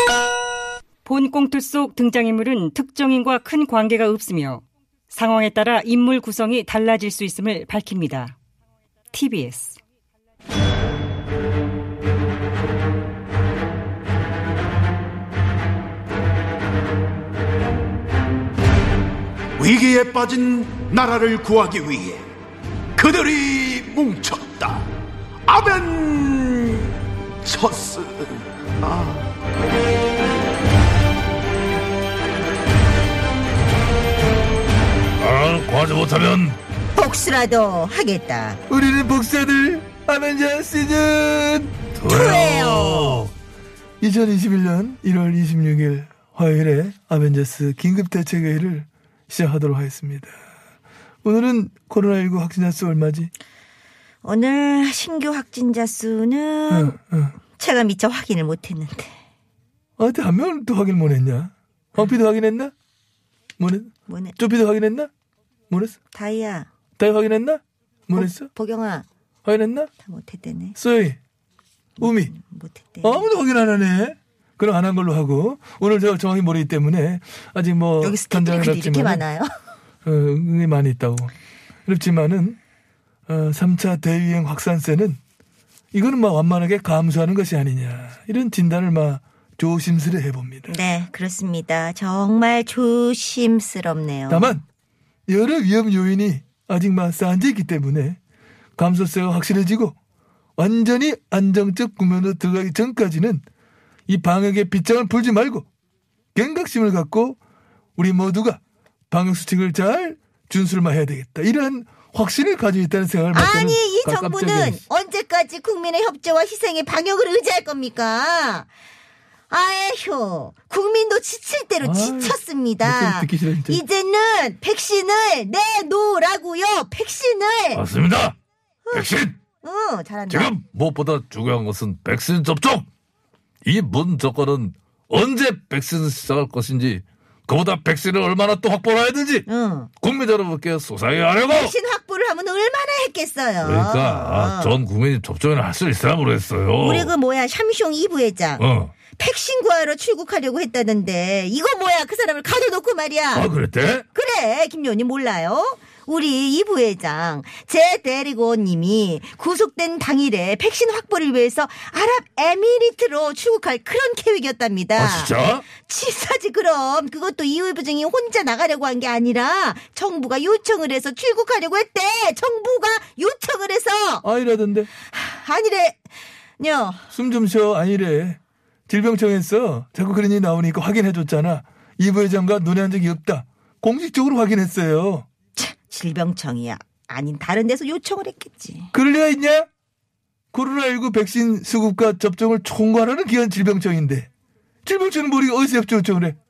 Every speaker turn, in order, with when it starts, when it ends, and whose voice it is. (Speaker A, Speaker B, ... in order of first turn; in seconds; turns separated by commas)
Speaker A: 1.0-8.3, Speaker A: 9.1-9.8, Speaker B: 19.6-22.2, Speaker B: 23.0-24.8, Speaker B: 25.5-29.2, Speaker C: 35.2-36.6, Speaker D: 36.9-38.6, Speaker E: 38.7-41.7, Speaker C: 42.0-43.3, Speaker D: 42.0-43.2, Speaker E: 44.0-50.3, Speaker E: 51.2-53.3, Speaker D: 54.2-56.9, Speaker E: 56.7-57.3, Speaker D: 57.6-59.1, Speaker E: 60.0-62.7, Speaker E: 63.6-65.1, Speaker D: 64.1-64.4, Speaker E: 65.7-66.0, Speaker D: 66.1-66.7, Speaker E: 67.0-68.5, Speaker D: 68.2-69.0, Speaker E: 69.4-69.9, Speaker D: 70.0-70.8, Speaker E: 70.8-71.2, Speaker D: 72.0-73.3, Speaker E: 72.0-72.3, Speaker E: 73.0-79.2, Speaker D: 78.0-79.5, Speaker E: 80.0-81.3, Speaker E: 81.9-82.6, Speaker E: 83.3-85.2, Speaker E: 85.9-90.7, Speaker D: 90.7-94.5, Speaker E: 94.3-94.6, Speaker E: 95.3-98.2, Speaker E: 98.8-100.0, Speaker E: 100.6-103.4, Speaker E: 104.1-105.7, Speaker E: 106.3-107.4, Speaker E: 108.0-108.6, Speaker E: 109.1-114.8, Speaker D: 113.3-118.7, Speaker D: 119.5-127.8, Speaker E: 121.8-123.8, Speaker C: 127.7-128.4, Speaker D: 128.8-130.5, Speaker C: 128.9-129.3, Speaker C: 130.3-132.8, Speaker C: 133.6-139.5, Speaker D: 139.5-139.9, Speaker C: 140.0-141.7, Speaker D: 141.5-144.8, Speaker C: 143.6-147.1, Speaker D: 146.8-148.6, Speaker C: 148.6-148.9, Speaker D: 149.2-153.5, Speaker C: 153.3-154.0, Speaker D: 154.1-174.2, Speaker C: 165.0-165.7, Speaker E: 174.2-174.9, Speaker D: 175.1-176.0, Speaker D: 176.6-177.1, Speaker E: 177.1-178.4, Speaker E: 178.9-185.2, Speaker D: 185.6-188.9, Speaker E: 188.9-189.7, Speaker E: 190.5-194.3, Speaker E: 194.8-196.4